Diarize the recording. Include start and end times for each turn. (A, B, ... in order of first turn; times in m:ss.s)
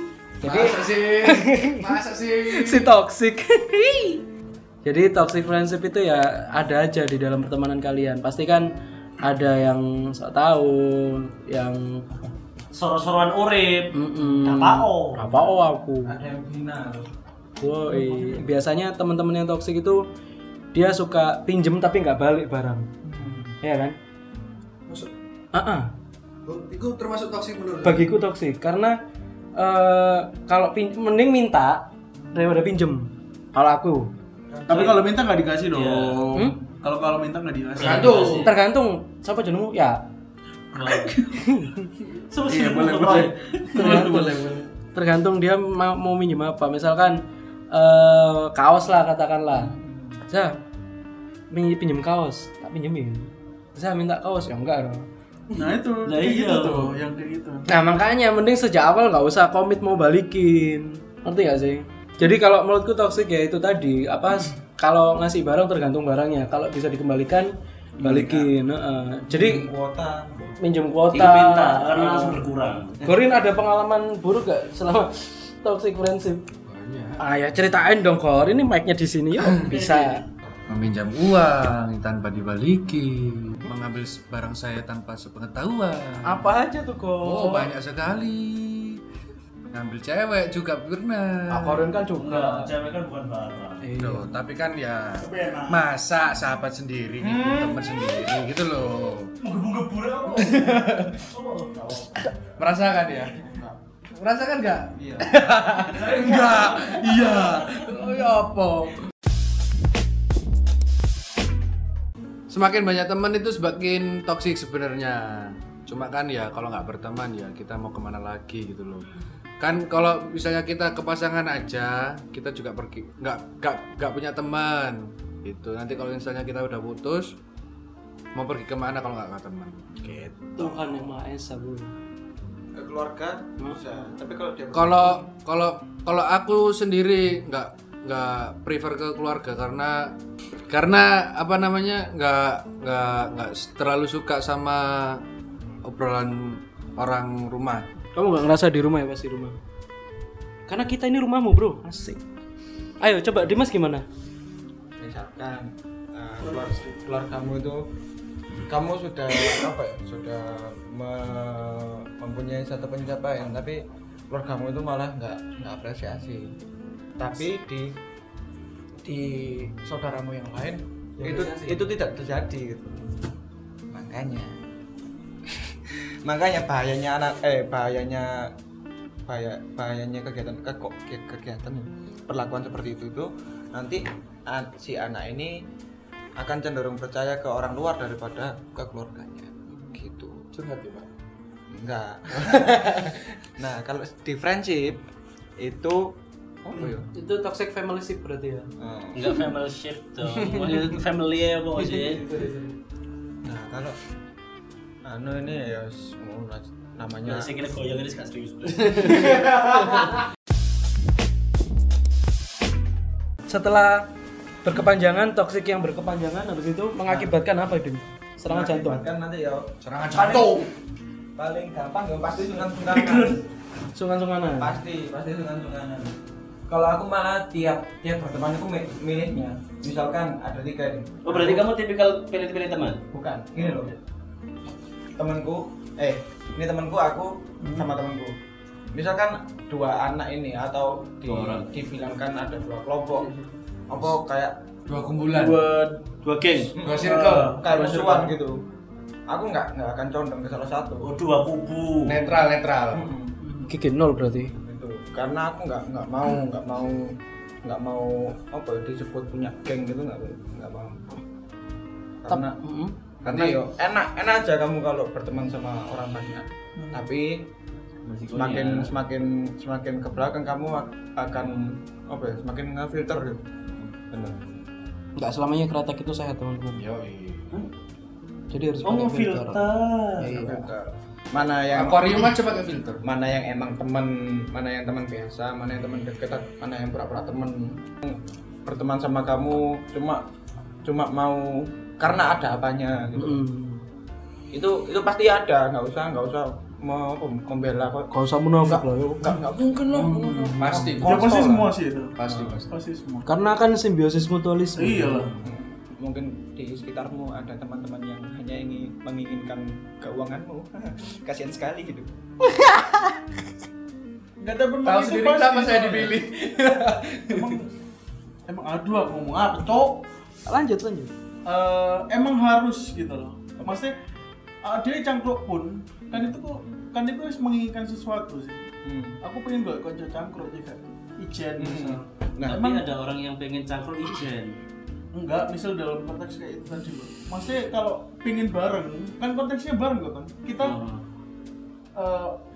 0:00.4-0:01.9 A
0:00.4-0:02.9 B
0:02.5-0:04.2 A
0:04.8-0:08.7 A
0:09.2-0:12.0 A
0:12.7-0:15.2 C
0:13.9-0:16.1 A
0:16.1-0:17.1 D
0:17.6-0:20.0 A
0:17.9-0:18.5 E
0:20.7-0:22.9 A
0:23.0-0:23.6 D
0:23.6-0:24.0 A
0:25.5-0:25.9 A
0:26.5-0:28.1 B
0:27.8-0:29.0 A
0:29.6-0:34.1 A
0:34.6-0:34.9 D
0:34.7-0:38.3 E
0:35.7-0:36.2 C
0:37.8-0:38.5 C
0:37.8-0:38.5 B
0:38.3-0:40.0 A
0:40.7-0:41.2 C
0:40.8-0:41.4 E
0:41.3-0:41.9 A
0:42.1-0:44.2 C
0:42.5-0:44.7 E
0:43.7-0:47.2 A
0:47.7-0:49.7 A
0:49.5-0:50.2 D
0:50.3-0:50.6 A
0:51.5-0:55.1 A
0:55.5-0:57.7 E
0:56.0-0:57.0 C
0:57.7-1:09.7 A
1:08.0-1:08.5 D
1:09.3-1:10.6 D
1:10.6-1:12.4 A
1:11.1-1:13.1 C
1:13.0-1:16.4 A
1:16.7-1:17.2 B
1:17.2-1:20.2 A
1:19.7-1:20.2 E
1:20.7-1:26.6 B
1:26.3-1:27.7 A
1:27.2-1:29.0 B
1:29.7-1:31.9 B
1:31.5-1:32.7 A
1:32.2-1:33.9 C
1:33.8-1:34.3 A
1:34.0-1:39.3 B
1:35.2-1:35.9 E
1:37.2-1:37.9 D
1:39.4-1:42.3 C
1:40.4-1:41.2 B
1:42.6-1:43.4 B
1:43.3-1:43.8 D
1:44.2-1:49.0 B
1:45.0-1:45.3 D
1:45.9-1:46.9 D
1:46.2-1:46.5 C
1:52.5-1:59.1 B
1:59.6-2:07.4 B
2:08.4-2:10.6 B
2:10.6-2:11.9 A
2:12.8-2:15.2 D
2:14.7-2:20.0 B
2:20.7-2:25.2 B
2:25.8-2:27.9 B
2:28.1-2:29.6 A
2:30.7-2:32.2 A
2:33.0-2:34.0 A
2:35.0-2:37.8 D
2:36.4-2:37.0 E
2:38.6-2:43.8 D
2:44.3-2:46.5 D
2:47.2-2:48.0 D
2:49.0-2:53.0 D
2:51.2-2:51.9 A
2:53.9-2:54.6 D
2:55.7-2:58.5 D
2:59.3-3:05.6 D
3:06.4-3:10.5 D
3:10.5-3:11.1 B
3:11.7-3:15.0 D
3:12.5-3:13.1 B
3:15.6-3:17.1 D
3:17.1-3:18.7 A
3:18.8-3:19.4 D
3:19.1-3:22.2 C
3:21.8-3:22.7 A
3:23.4-3:24.0 D
3:25.0-3:27.5 D
3:27.2-3:29.4 C
3:29.3-3:30.1 A
3:33.5-3:34.1 A
3:34.6-3:39.0 A
3:37.0-3:37.4 D
3:38.5-3:39.7 D
3:39.8-3:40.6 B
3:40.2-3:40.7 E
3:41.4-3:43.4 D
3:43.0-3:43.3 E
3:43.9-3:44.8 A
3:44.6-3:46.1 D
3:46.7-3:51.7 D
3:51.2-3:53.0 C
3:53.1-3:53.9 D
3:53.6-3:54.0 C
3:55.2-3:58.3 D
3:57.6-3:57.9 E
3:58.9-4:03.3 D
4:01.3-4:01.7 C
4:03.9-4:04.6 D
4:04.9-4:05.6 B
4:05.3-4:06.0 E
4:06.2-4:06.7 C
4:06.8-4:08.6 D
4:06.8-4:07.5 B
4:06.9-4:08.4 E
4:09.3-4:11.1 D
4:11.0-4:12.4 C
4:12.1-4:13.1 B
4:12.9-4:13.4 D
4:13.5-4:14.5 A
4:14.6-4:21.2 D
4:22.2-4:22.6 D
4:22.3-4:22.9 A
4:23.2-4:27.5 D
4:23.3-4:23.6 B
4:26.8-4:27.0 E
4:28.0-4:28.9 C
4:28.3-4:33.5 D
4:34.0-4:34.4 D
4:35.2-4:36.8 A
4:36.8-4:37.6 B
4:38.5-4:39.6 A
4:38.8-4:40.4 C
4:40.2-4:40.7 A
4:40.3-4:42.4 D
4:41.7-4:43.0 B
4:43.1-4:50.2 D
4:50.8-4:53.4 D
4:53.2-4:53.8 A
4:54.5-4:58.1 D
4:58.1-4:59.2 A
4:58.7-5:01.7 D
4:59.2-5:03.3 E
5:00.6-5:01.0 A
5:00.6-5:01.2 B
5:02.2-5:02.7 B
5:03.3-5:05.3 A
5:04.8-5:05.4 E
5:05.4-5:12.1 D
5:12.5-5:13.2 A
5:14.4-5:16.2 E
5:14.8-5:17.6 B
5:17.3-5:17.7 E
5:18.5-5:20.0 E
5:20.5-5:21.1 A
5:21.5-5:23.9 E
5:24.6-5:28.7 E
5:28.8-5:29.2 D
5:29.2-5:32.0 E
5:31.6-5:32.8 D
5:32.5-5:34.6 C
5:35.1-5:40.8 E
5:40.6-5:41.0 C
5:42.0-5:42.4 E